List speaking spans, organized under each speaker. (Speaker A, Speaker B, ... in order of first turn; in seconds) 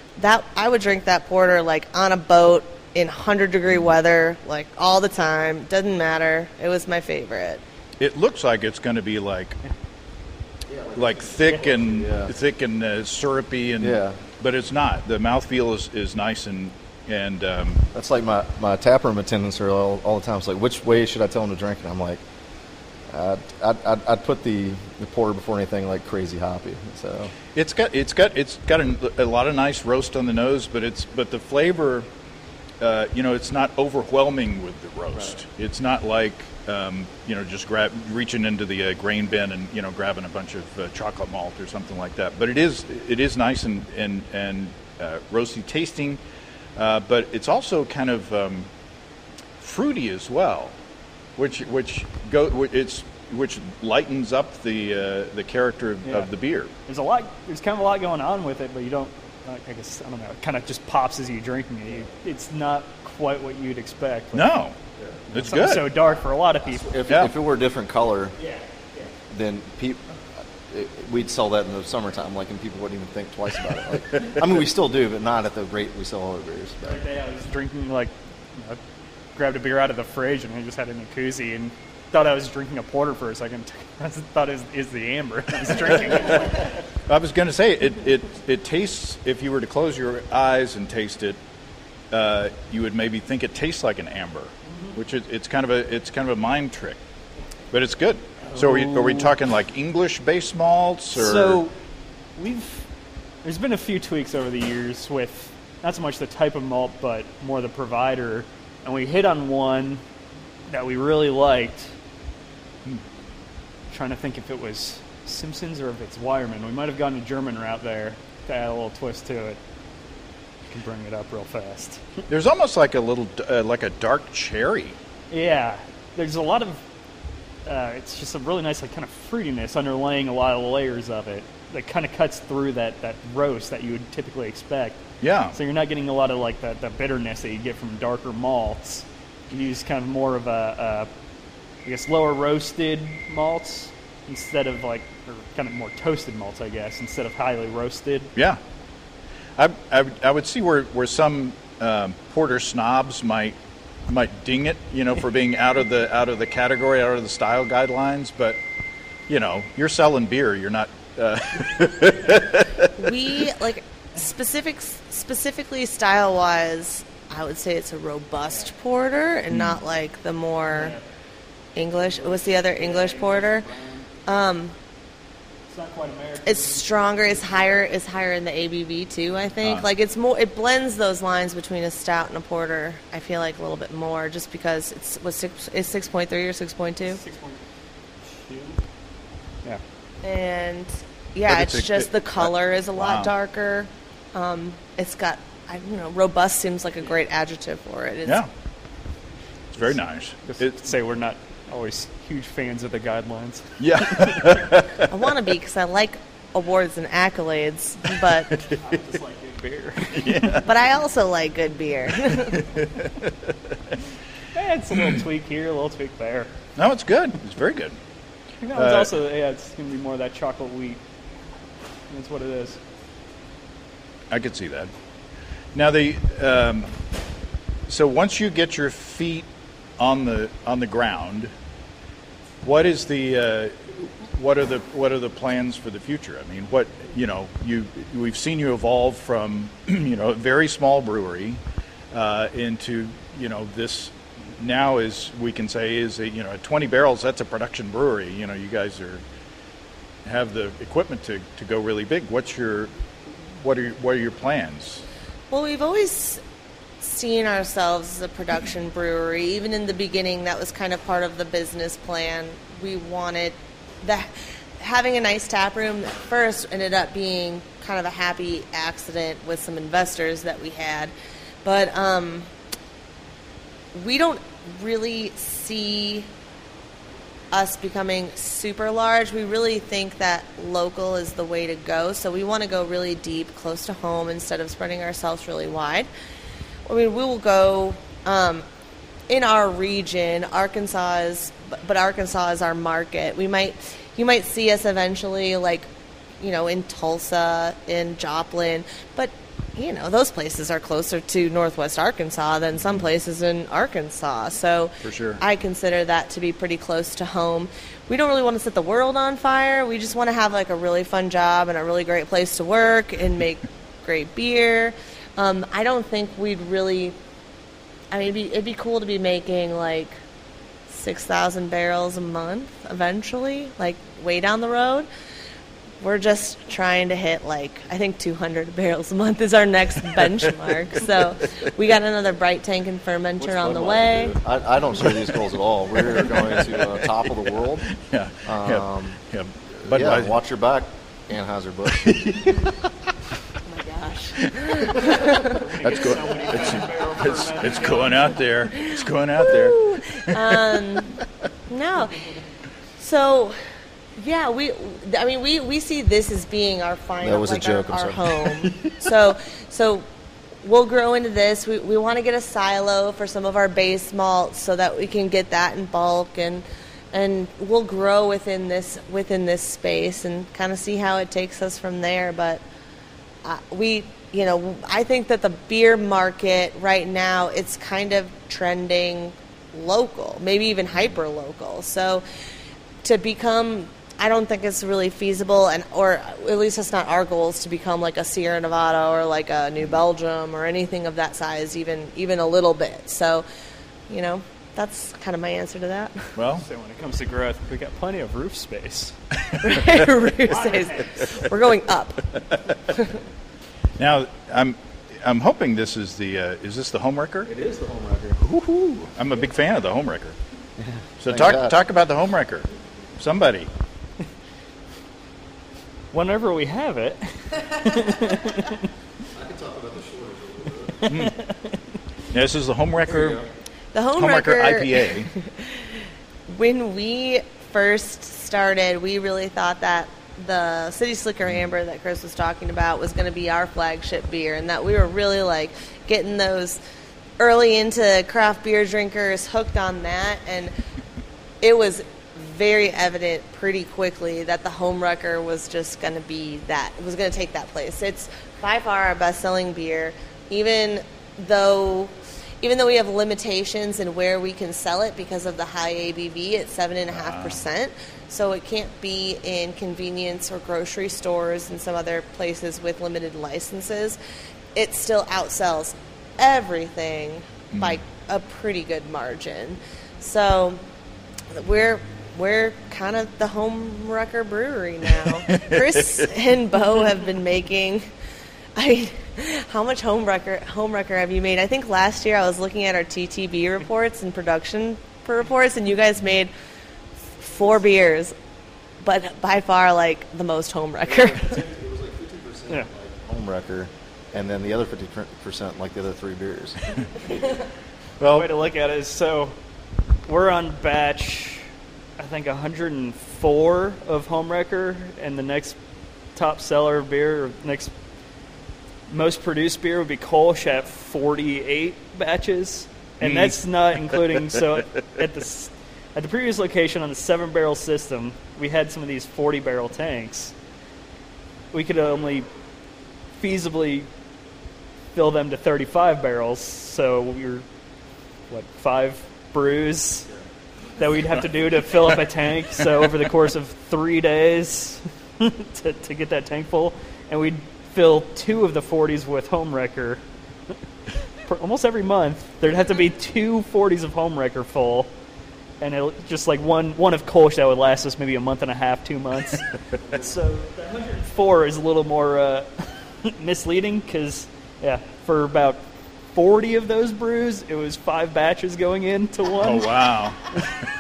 Speaker A: 0.2-7.6, 163.0-171.0, 171.8-173.7, 174.3-174.8, 176.4-187.2, 190.2-198.4, 205.1-208.7, 210.6-212.7, 255.5-256.4, 257.0-271.1, 271.6-272.5, 273.9-276.3, 277.5-286.1, 286.9-288.6, 289.3-295.9, 296.4-317.2, 318.1-320.2, 320.9-325.1, 326.0-334.4, 343.6-345.6, 348.8-352.4, 353.0-353.6, 354.2-360.1, 360.6-372.6, 373.4-382.2, 383.0-393.5, 394.1-396.4, 399.6-403.2, 423.9-436.8, 437.4-440.7, 441.6-464.2, 464.8-470.8, 471.5-478.1, 478.8-486.5, 487.3-488.4, 489.0-491.7
Speaker B: 8.0-9.6, 10.9-17.9, 27.6-32.1, 32.8-46.2, 46.8-48.7, 49.6-50.8, 51.4-56.7, 64.3-64.8, 65.3-65.9, 87.1-91.4, 92.1-97.0, 97.7-101.6, 122.3-125.0, 135.2-135.6, 148.4-148.6, 149.6-153.6, 154.1-158.6, 159.3-163.3, 169.5-169.8, 179.6-179.9, 191.5-193.3, 199.8-200.8, 203.8-205.1, 208.5-208.8, 210.1-210.7, 212.3-214.0, 214.9-215.2, 216.8-218.0, 218.7-219.1, 224.3-224.9, 225.7-226.9, 227.9-231.5, 232.6-241.6, 242.1-249.2, 250.2-255.0, 305.0-305.4, 335.9-337.1, 337.9-340.4, 341.9-342.7, 344.6-345.0, 345.8-350.8, 396.4-396.7, 404.0-407.5, 408.4-410.4, 411.2-413.7, 421.1-421.3, 422.3-423.4, 424.2-425.3, 457.1-457.6, 467.7-468.0, 475.5-476.0, 498.2-498.5, 513.2-513.6, 514.1-514.6, 559.6-560.8
Speaker C: 10.7-12.3, 13.8-14.2, 17.9-22.2, 23.1-27.3, 66.7-68.4, 69.3-70.0, 70.7-77.0, 333.4-337.9, 338.4-339.2, 339.9-342.1, 357.2-358.5, 407.5-408.4, 410.8-411.8, 419.3-421.0, 423.1-423.5, 491.1-496.9
Speaker D: 56.9-64.5, 65.4-66.9, 68.4-69.1, 76.8-78.8, 79.3-86.7, 94.7-95.0, 98.5-99.3, 101.2-101.7, 102.4-102.9, 103.4-110.0, 110.7-111.9, 113.9-119.6, 120.7-122.0, 125.3-126.8, 127.7-135.0, 135.5-141.1, 141.8-148.3, 170.7-171.0, 172.0-174.1, 175.7-177.8, 187.1-187.6, 188.3-188.8, 200.5-204.5, 208.8-210.6, 214.5-216.5, 218.6-221.0, 222.1-222.8, 345.4-348.4, 396.6-399.2, 400.5-401.4, 416.1-418.9, 421.1-422.0, 498.4-499.6, 500.2-501.7, 502.2-505.8, 506.4-507.9, 509.1-520.5, 521.7-522.5, 523.4-524.1, 525.1-527.6, 528.5-530.3, 531.0-540.8, 541.3-545.1, 545.8-560.0